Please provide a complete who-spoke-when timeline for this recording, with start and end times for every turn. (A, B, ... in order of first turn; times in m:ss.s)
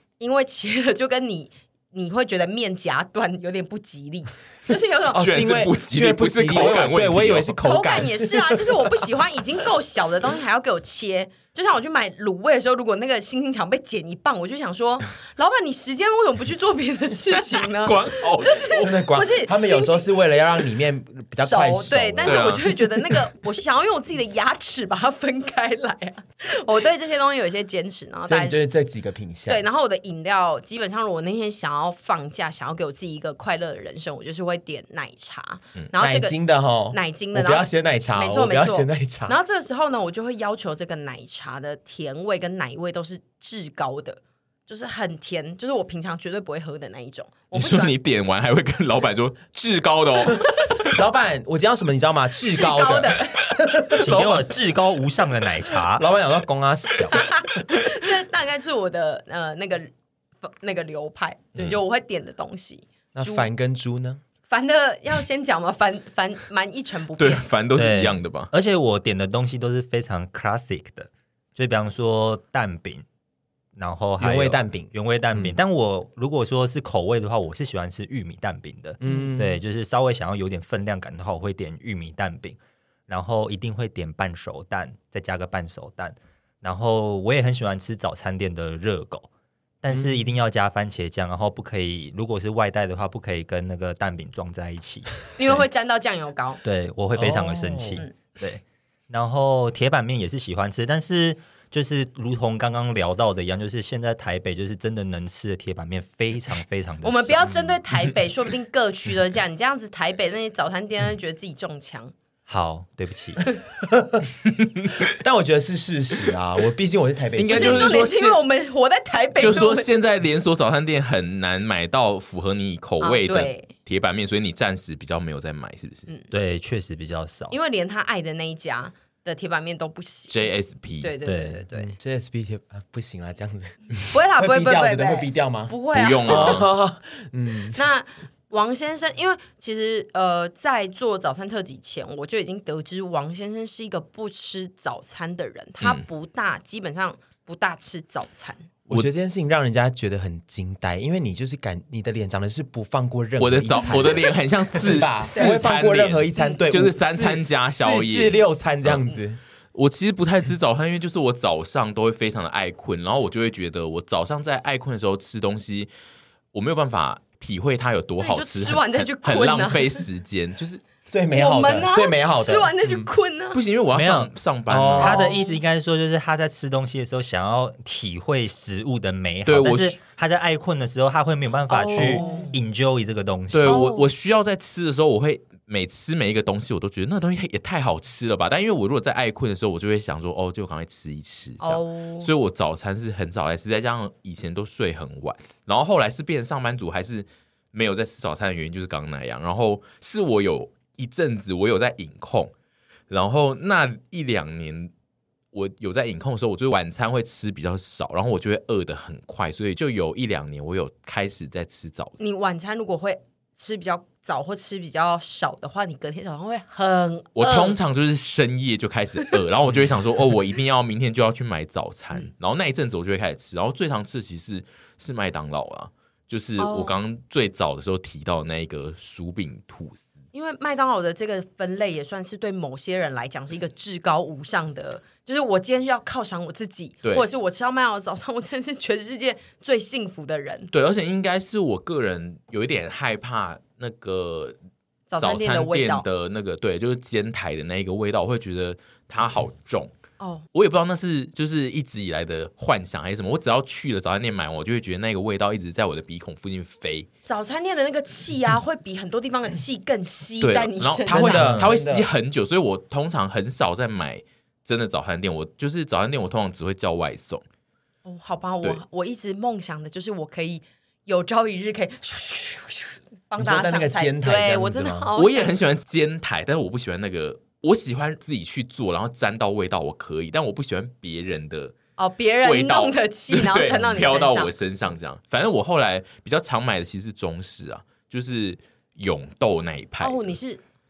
0:00.2-0:05.4 A
0:05.1-0:08.8 B
0:05.2-0:07.6 C
0:07.6-0:20.1 A
0:17.6-0:19.0 C
0:18.8-0:22.6 B
0:21.4-0:28.6 A
0:22.2-0:22.9 C
0:28.3-0:29.6 B
0:29.5-0:36.4 A
0:36.0-0:39.4 B
0:36.9-0:48.0 A
0:47.5-0:51.0 C
0:50.8-0:54.2 B
0:52.5-0:53.4 A
0:54.0-0:56.0 D
0:54.0-0:54.5 C
0:55.9-0:57.6 B
0:57.1-0:59.9 A
1:00.4-1:03.5 A
1:03.1-1:04.2 B
1:04.5-1:07.4 A
1:07.2-1:08.5 C
1:07.8-1:13.0 D
1:13.8-1:29.3 D
1:14.2-1:15.6 B
1:19.0-1:19.6 B
1:29.8-1:35.6 D
1:29.9-1:30.3 B
1:35.4-1:36.6 A
1:36.6-1:47.7 D
1:37.2-1:38.0 B
1:47.0-1:52.1 A
1:52.5-1:53.5 D
1:53.8-1:54.3 B
1:54.6-1:55.0 C
1:55.0-1:58.1 B
1:57.4-1:58.4 C
1:57.5-1:59.9 A
1:59.4-2:06.1 C
2:03.0-2:03.7 A
2:06.3-2:07.6 D
2:07.5-2:11.9 A
2:10.3-2:11.2 C
2:11.2-2:11.6 D
2:11.7-2:15.7 B
2:14.1-2:16.6 A
2:15.9-2:16.7 C
2:16.2-2:17.8 B
2:17.7-2:28.7 A
2:28.9-2:39.4 B
2:33.4-2:39.0 C
2:35.3-2:35.6 A
2:39.7-2:45.9 C
2:46.5-2:50.8 C
2:48.2-2:50.0 A
2:51.1-2:53.1 B
2:51.3-2:53.6 A
2:53.5-2:55.2 C
2:53.9-2:54.3 D
2:54.7-2:55.3 B
2:55.0-3:03.8 D
2:55.0-2:55.6 A
2:59.5-3:00.0 C
3:01.7-3:02.5 A
3:03.5-3:22.5 C
3:03.6-3:04.1 A
3:11.6-3:12.3 A
3:23.1-3:24.9 C
3:25.5-3:32.2 C
3:32.2-3:37.8 A
3:37.4-3:50.1 C
3:46.6-3:47.0 A
3:50.3-4:00.7 A
4:00.7-4:04.6 C
4:05.1-4:06.1 A
4:05.2-4:09.9 C
4:10.2-4:10.4 A
4:10.5-4:17.1 C
4:17.3-4:21.5 A
4:20.4-4:27.4 C
4:21.1-4:22.1 B
4:21.4-4:21.7 D
4:28.0-4:35.5 A
4:33.4-4:35.1 B
4:35.2-4:41.7 C
4:42.0-4:44.5 A
4:42.4-4:50.3 C
4:50.0-4:50.6 A